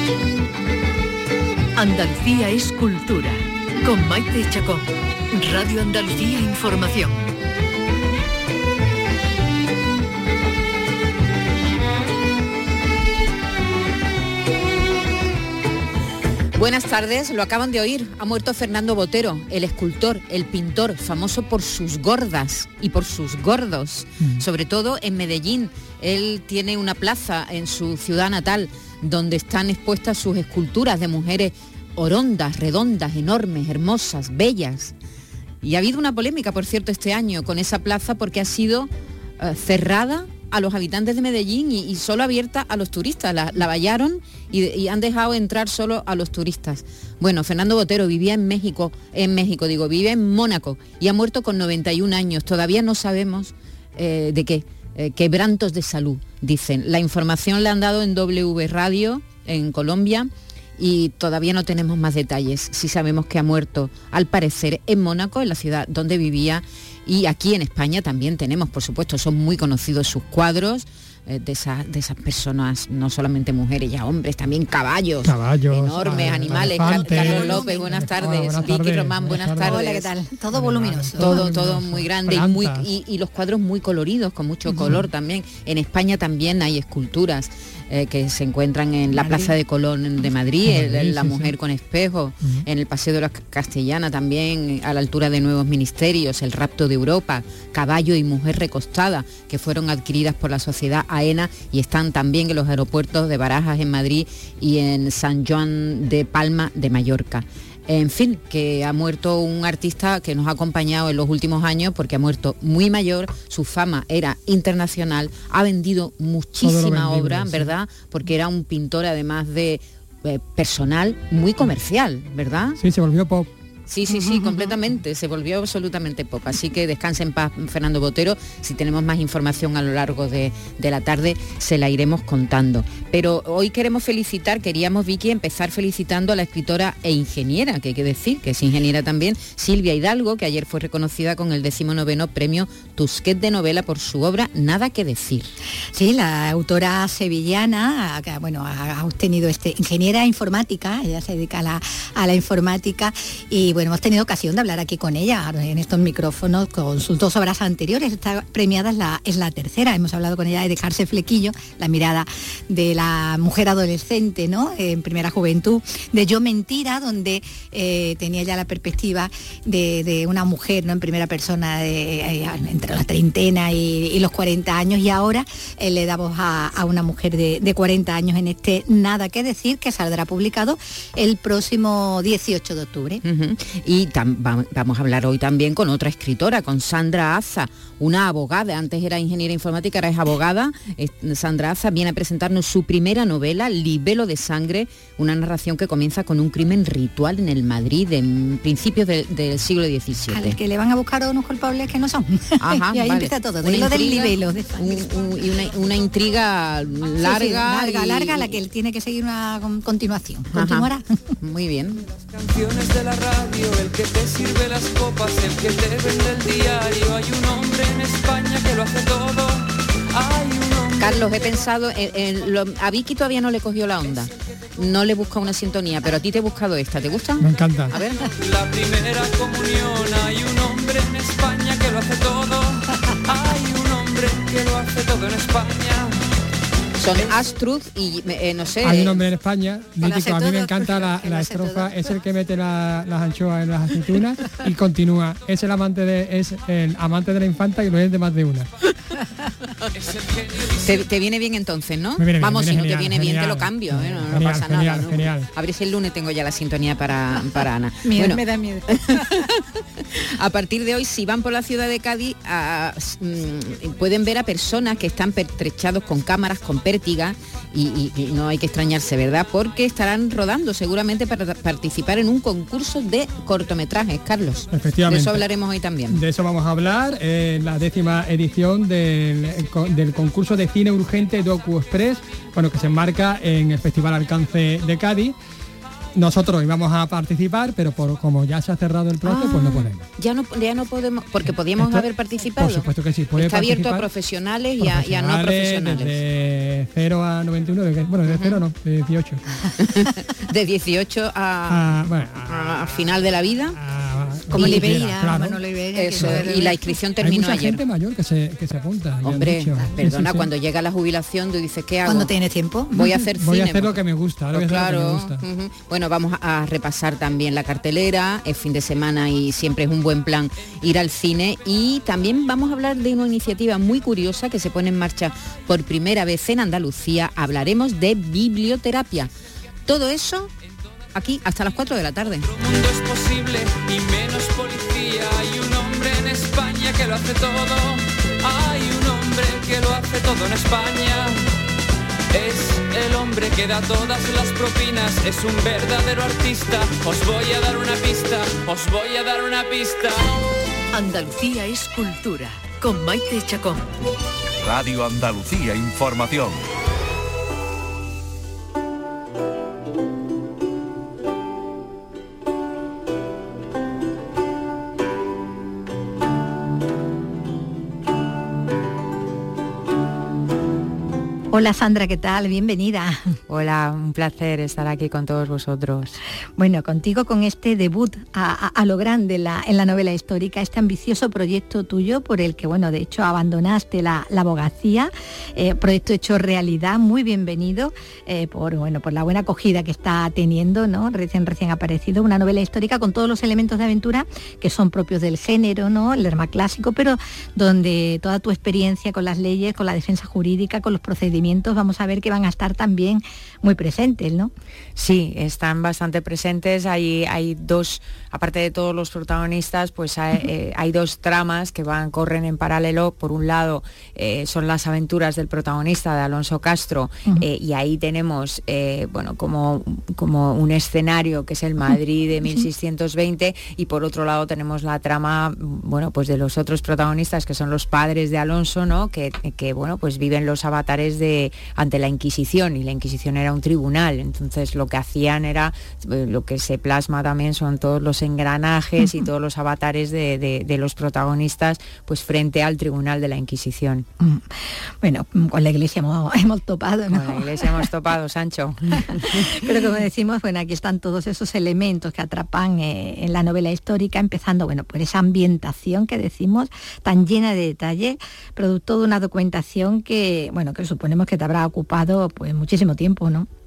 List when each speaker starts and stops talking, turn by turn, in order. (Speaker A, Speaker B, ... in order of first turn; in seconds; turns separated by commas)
Speaker A: 1.8-7.3, Speaker B: 16.6-34.9, Speaker B: 35.6-80.1, Speaker C: 75.2-79.8, Speaker D: 76.5-78.7, Speaker D: 79.6-81.5, Speaker C: 80.5-82.9, Speaker B: 81.2-122.8, Speaker D: 84.7-85.0, Speaker D: 89.1-89.5, Speaker C: 90.6-91.5, Speaker C: 116.6-117.7, Speaker C: 122.8-123.5, Speaker B: 123.9-145.5, Speaker D: 124.1-124.8, Speaker D: 145.9-183.2, Speaker B: 183.2-200.6, Speaker D: 200.3-205.1, Speaker B: 202.6-208.6, Speaker D: 207.2-211.2, Speaker B: 210.5-210.9, Speaker B: 211.4-212.0, Speaker E: 212.1-221.7, Speaker B: 221.0-227.4, Speaker C: 227.4-227.9, Speaker E: 227.9-236.2, Speaker B: 237.0-239.3, Speaker C: 238.8-248.7, Speaker D: 240.0-242.1, Speaker E: 249.9-251.1, Speaker B: 250.8-259.6, Speaker C: 252.2-255.5, Speaker D: 257.4-259.5, Speaker B: 260.1-276.2, Speaker C: 274.7-275.4, Speaker C: 276.1-285.4, Speaker C: 286.1-290.0, Speaker B: 289.2-296.2, Speaker C: 291.8-294.1, Speaker C: 294.8-299.4, Speaker B: 298.3-298.6, Speaker B: 299.8-303.8, Speaker C: 301.7-303.2, Speaker C: 303.7-305.6, Speaker D: 304.5-307.0, Speaker B: 304.5-304.9, Speaker B: 305.9-307.8, Speaker C: 306.1-306.6, Speaker C: 307.2-310.5, Speaker B: 309.2-312.3, Speaker D: 312.1-313.2, Speaker B: 312.9-314.0, Speaker C: 313.2-315.4, Speaker B: 314.5-329.3, Speaker B: 329.9-330.5, Speaker B: 331.1-332.5, Speaker E: 332.4-341.4, Speaker E: 342.3-350.4, Speaker A: 350.9-353.9, Speaker F: 354.6-356.6, Speaker D: 371.5-373.4, Speaker G: 373.5-376.2, Speaker D: 376.6-404.5, Speaker G: 404.9-444.1, Speaker D: 444.2-447.8, Speaker G: 447.1-449.7, Speaker D: 448.9-463.5